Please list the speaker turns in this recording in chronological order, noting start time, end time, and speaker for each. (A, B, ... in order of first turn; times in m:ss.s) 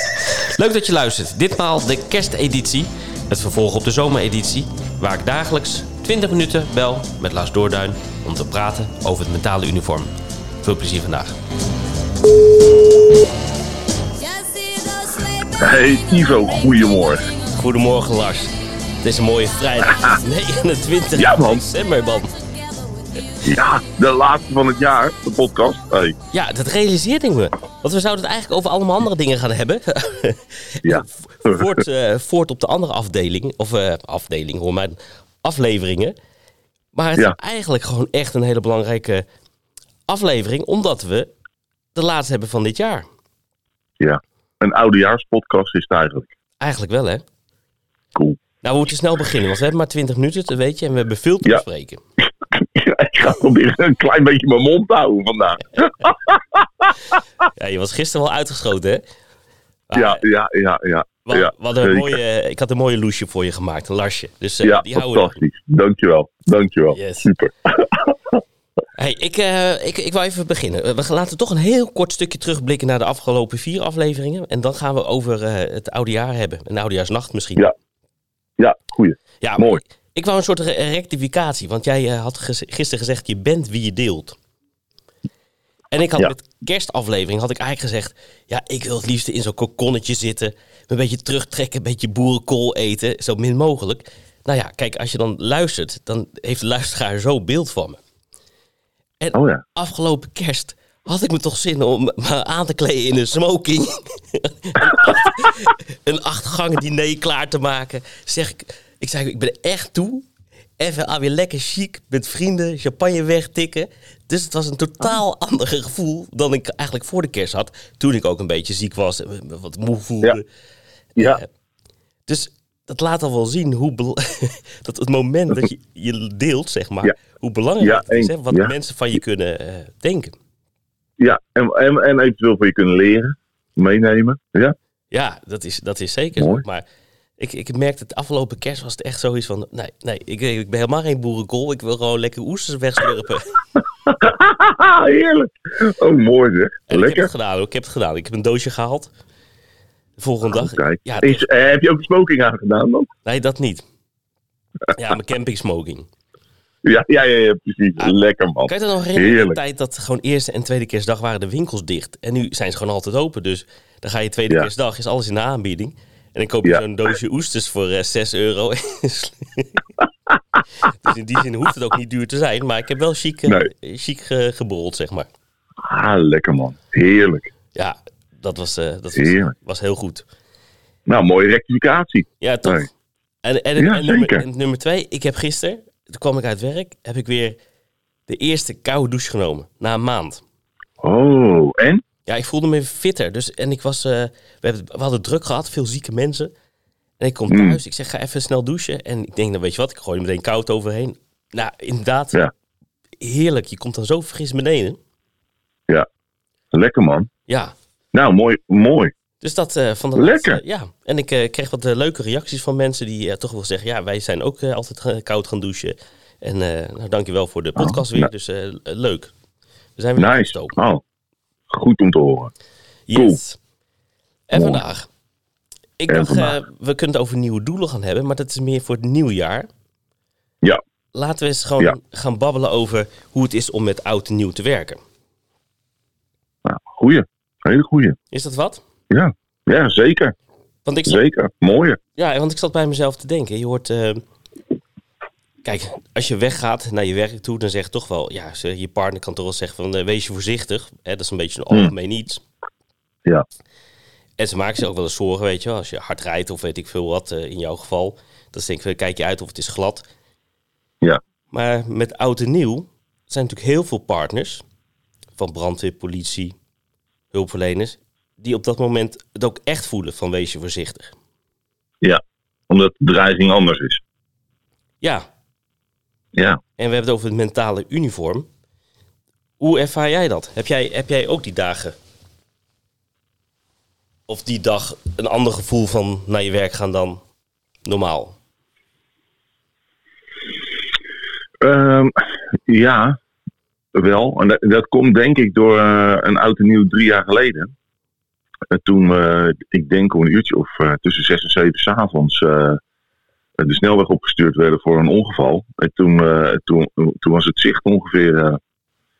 0:00.1-0:10.1 A
0:10.6-0:11.4 A
0:15.6-0:17.3 B
0:17.5-0:22.4 A
0:19.8-0:20.1 B
0:21.2-0:21.6 B
0:23.4-0:26.2 B
0:26.3-0:36.1 A
0:30.8-0:31.8 B
0:36.9-0:39.2 A
0:40.1-0:41.3 A
0:41.9-0:43.0 A
0:44.0-0:46.3 B
0:46.6-0:47.2 A
0:48.6-0:52.0 A
0:52.5-0:57.1 B
0:57.5-0:59.0 A
0:59.9-1:00.2 A
0:59.9-1:02.2 B
1:01.3-1:05.4 A
1:04.6-1:08.4 B
1:06.9-1:07.3 A
1:09.0-1:17.7 A
1:18.6-1:19.8 B
1:19.4-1:24.4 A
1:25.9-1:38.0 A
1:39.2-1:50.2 A
1:39.3-1:39.6 B
1:50.8-2:00.4 A
2:01.2-2:01.5 A
2:02.3-2:10.3 A
2:07.8-2:08.7 B
2:11.2-2:14.7 B
2:15.1-2:16.8 A
2:16.4-2:16.6 B
2:17.4-2:23.6 A
2:24.0-2:27.3 B
2:26.9-2:29.1 A
2:30.2-2:31.5 A
2:30.5-2:33.1 B
2:33.2-2:33.8 A
2:34.9-2:36.1 A
2:36.8-2:39.6 B
2:38.0-2:49.8 A
2:50.8-2:55.3 A
2:55.8-2:57.5 B
2:57.7-3:00.2 A
2:59.2-2:59.5 B
3:01.1-3:02.9 B
3:02.4-3:02.9 A
3:03.4-3:07.6 A
3:03.8-3:04.4 B
3:08.3-3:10.4 A
3:11.0-3:12.0 B
3:12.2-3:16.5 A
3:17.2-3:22.4 A
3:17.5-3:17.8 B
3:23.2-3:25.0 A
3:26.7-3:27.3 B
3:27.5-3:27.7 A
3:28.1-3:29.1 B
3:29.4-3:39.3 A
3:30.2-3:30.6 B
3:37.8-3:38.3 B
3:40.0-3:40.7 A
3:40.2-3:41.0 B
3:41.7-3:42.5 B
3:43.1-3:43.6 A
3:44.5-3:45.1 A
3:44.5-3:44.8 B
3:46.0-3:49.7 A
3:46.1-3:46.5 B
3:51.1-3:55.0 A
3:56.6-3:58.2 B
3:58.3-3:58.8 A
3:59.1-4:00.3 B
4:00.8-4:01.2 A
4:01.1-4:02.0 B
4:02.1-4:04.2 A
4:05.6-4:12.4 A
4:14.4-4:20.0 A
4:21.5-4:24.6 A
4:25.4-4:26.5 A
4:27.3-4:31.1 A
4:32.0-4:34.0 B
4:35.0-4:35.2 A
4:36.3-4:36.6 B
4:36.8-4:38.5 A
4:39.6-4:42.0 A
4:44.3-4:47.2 A
4:47.8-4:48.4 A
4:51.6-4:53.2 B
4:53.9-4:57.7 B
4:58.7-5:02.8 B
5:03.6-5:08.6 B